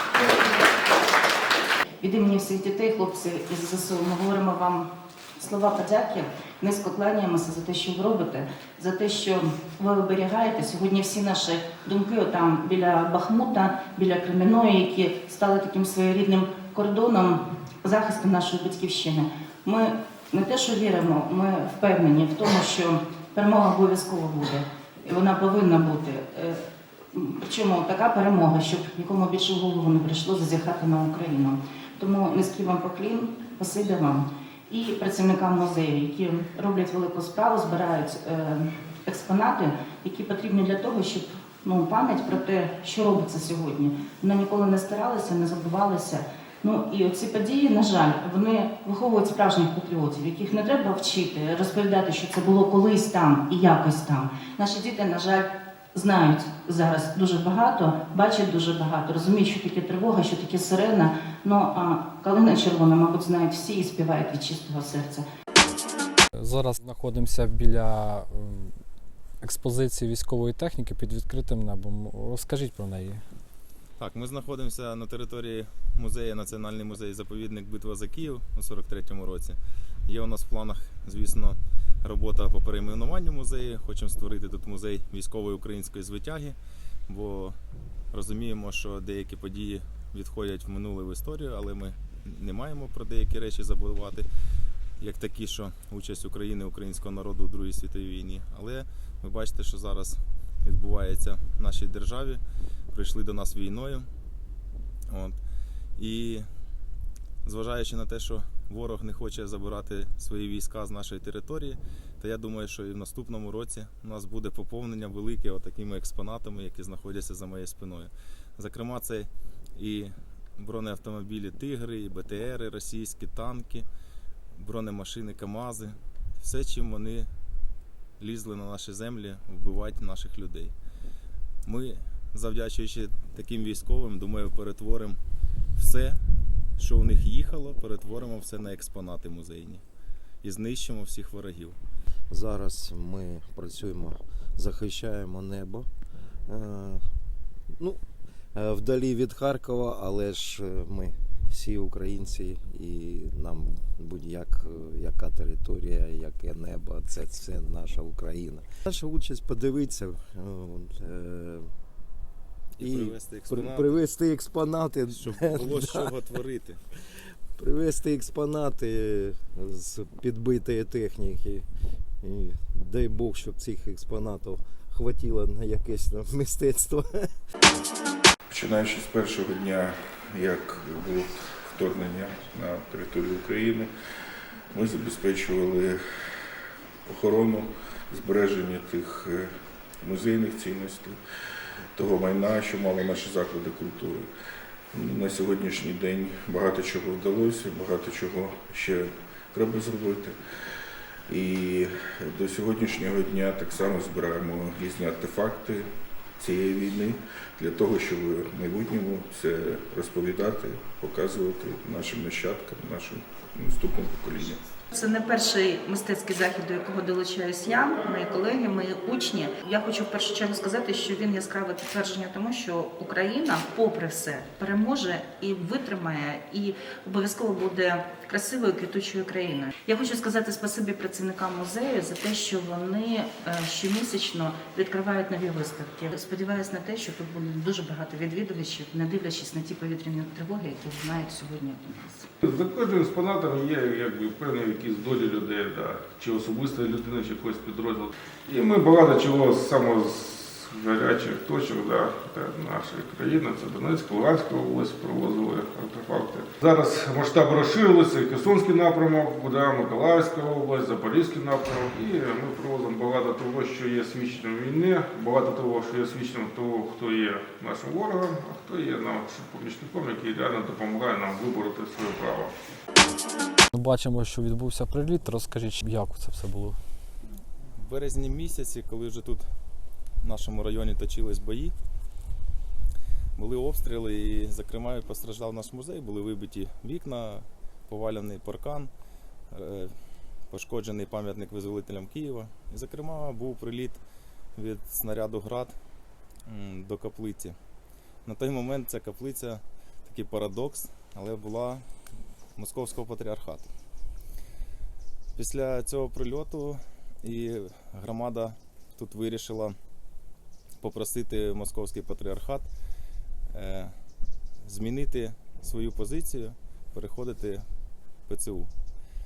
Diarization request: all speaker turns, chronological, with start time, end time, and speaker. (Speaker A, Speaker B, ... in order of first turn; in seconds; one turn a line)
Speaker A: 2.0-65.2
Speaker B: 66.3-68.8
Speaker B: 69.4-73.2
Speaker C: 74.0-86.5
Speaker C: 87.1-87.5
Speaker C: 88.1-94.3
Speaker C: 95.0-104.1
Speaker C: 105.1-105.4
Speaker C: 106.0-106.5
Speaker C: 107.4-123.8
Speaker C: 124.5-127.3
Speaker C: 128.2-130.7
Speaker C: 131.7-135.2
Speaker C: 135.8-136.2
Speaker C: 136.8-139.8
Speaker C: 140.4-141.8
Speaker D: 142.3-145.9
Speaker D: 146.5-147.1
Speaker D: 147.7-148.0
Speaker D: 148.5-161.7
Speaker C: 162.8-164.0
Speaker D: 162.8-166.1
Speaker C: 165.1-166.8
Speaker D: 167.6-171.6
Speaker D: 172.2-177.3
Speaker E: 178.5-183.9
Speaker E: 184.7-186.0
Speaker E: 187.0-191.2
Speaker E: 191.9-194.3
Speaker E: 194.9-200.3
Speaker E: 201.3-214.6
Speaker A: 214.9-242.3
Speaker F: 242.4-272.5
Speaker B: 273.7-276.8
Speaker C: 277.8-279.5
Speaker C: 280.2-281.7
Speaker C: 283.4-288.9
Speaker C: 289.5-289.9
Speaker C: 290.5-294.0
Speaker C: 294.6-295.7
Speaker C: 296.4-297.6
Speaker C: 298.2-301.9
Speaker C: 302.6-303.7
Speaker C: 305.4-309.8
Speaker C: 310.8-312.7
Speaker C: 313.5-313.9
Speaker C: 314.6-317.6
Speaker C: 318.3-318.7